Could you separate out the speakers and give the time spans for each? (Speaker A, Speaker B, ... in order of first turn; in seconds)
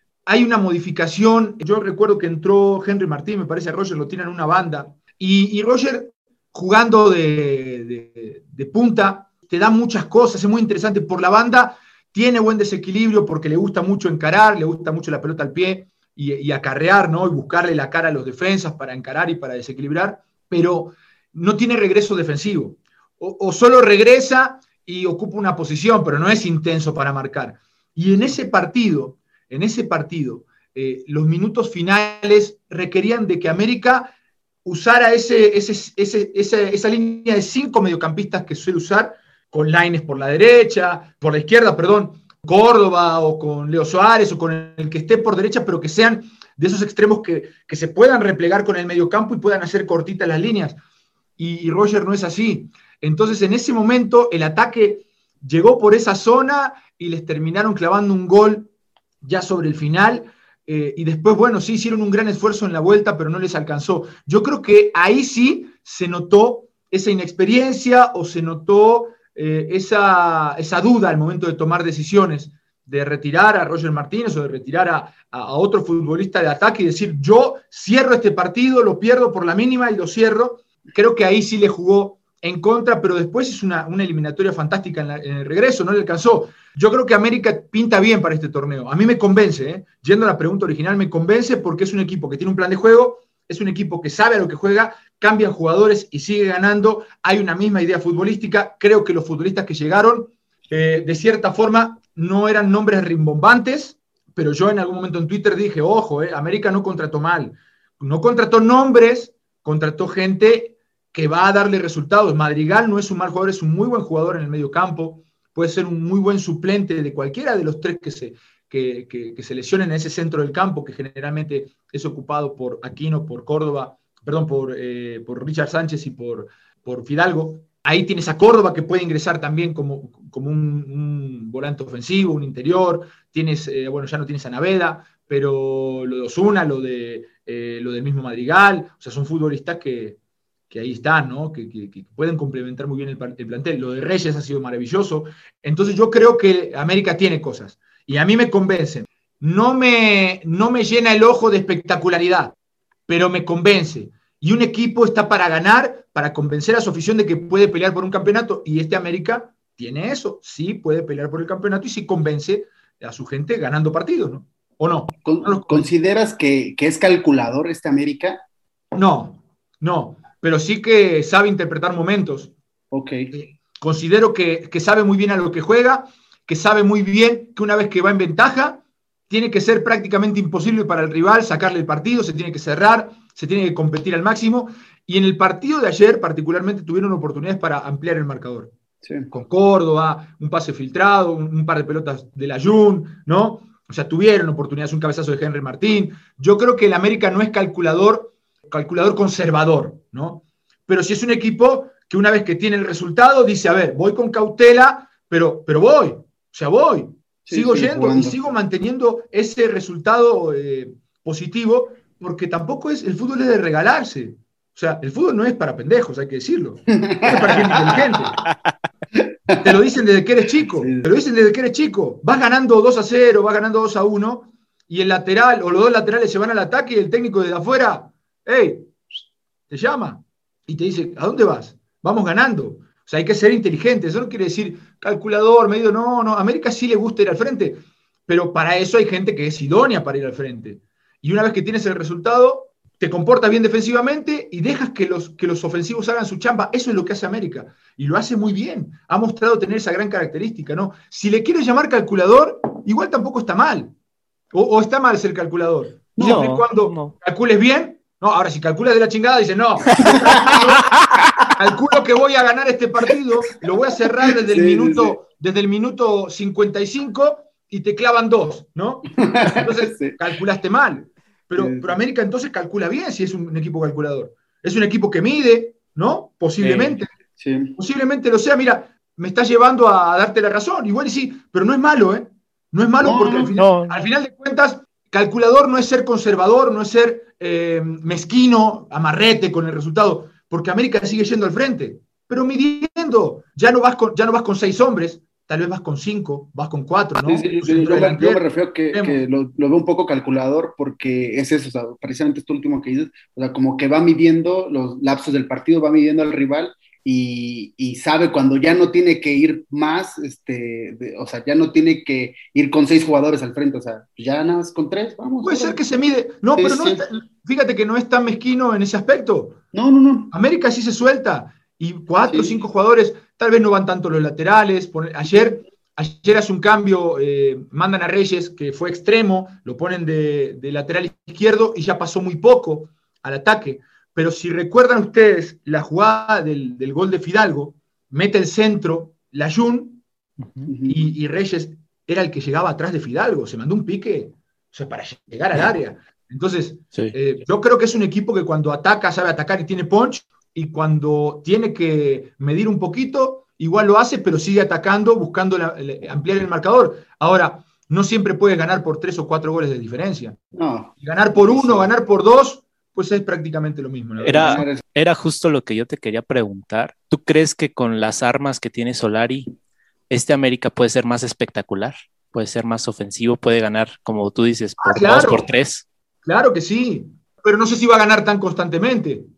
Speaker A: 0.2-34.1, 34.6-50.8, 51.4-58.7, 59.2-140.2, 140.7-152.5, 153.1-165.9, 168.9-172.5, 173.3-188.7, 189.3-218.4, 219.6-229.0, 229.7-253.9, 254.5-260.9, 261.5-277.1, 277.8-299.2, 315.4-319.6, 320.3-340.0, 340.9-360.4, 361.0-364.6, 374.8-375.5, 376.2-379.3
Speaker B: 165.2-168.4, 172.9-173.3, 189.0-189.3, 207.5-208.4, 216.9-218.4, 219.2-219.6, 220.8-221.1, 260.0-260.8, 264.4-265.1, 269.2-270.1, 271.6-271.9, 277.4-277.8, 283.0-283.6, 297.2-315.8, 316.6-317.0, 319.7-320.3, 322.3-322.6, 340.7-341.1, 360.6-361.9, 364.2-364.8
Speaker C: 256.2-257.1, 276.6-277.0, 283.6-284.1, 340.4-340.7, 364.2-369.5, 370.1-375.9